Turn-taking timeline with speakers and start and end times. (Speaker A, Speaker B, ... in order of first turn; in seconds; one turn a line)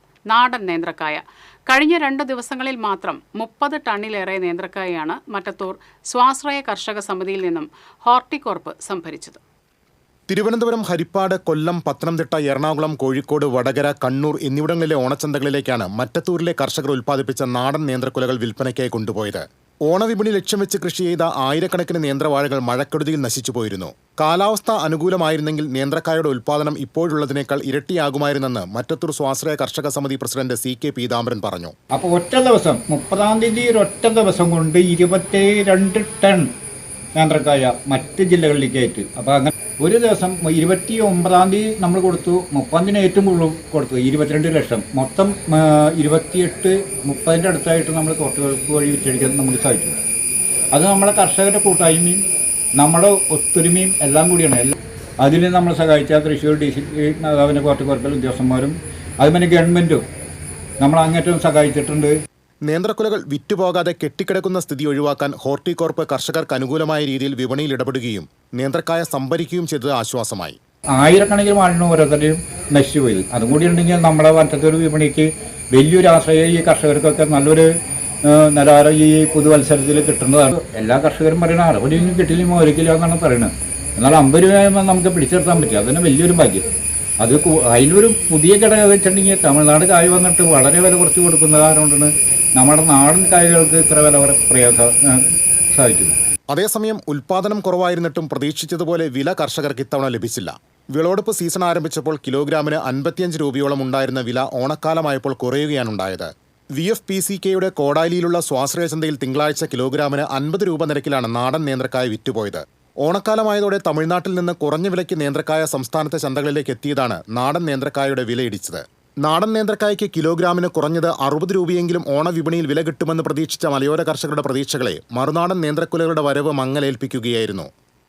Speaker A: 0.3-9.4
Speaker B: 10.3-31.7
Speaker C: 31.9-36.5
Speaker C: 37.2-50.0
Speaker C: 50.7-52.2
Speaker C: 52.8-60.0
Speaker C: 60.8-62.1
Speaker B: 62.7-70.6
Speaker C: 70.9-77.7
Speaker C: 78.3-86.6
Speaker C: 87.2-96.1
Speaker B: 96.5-127.7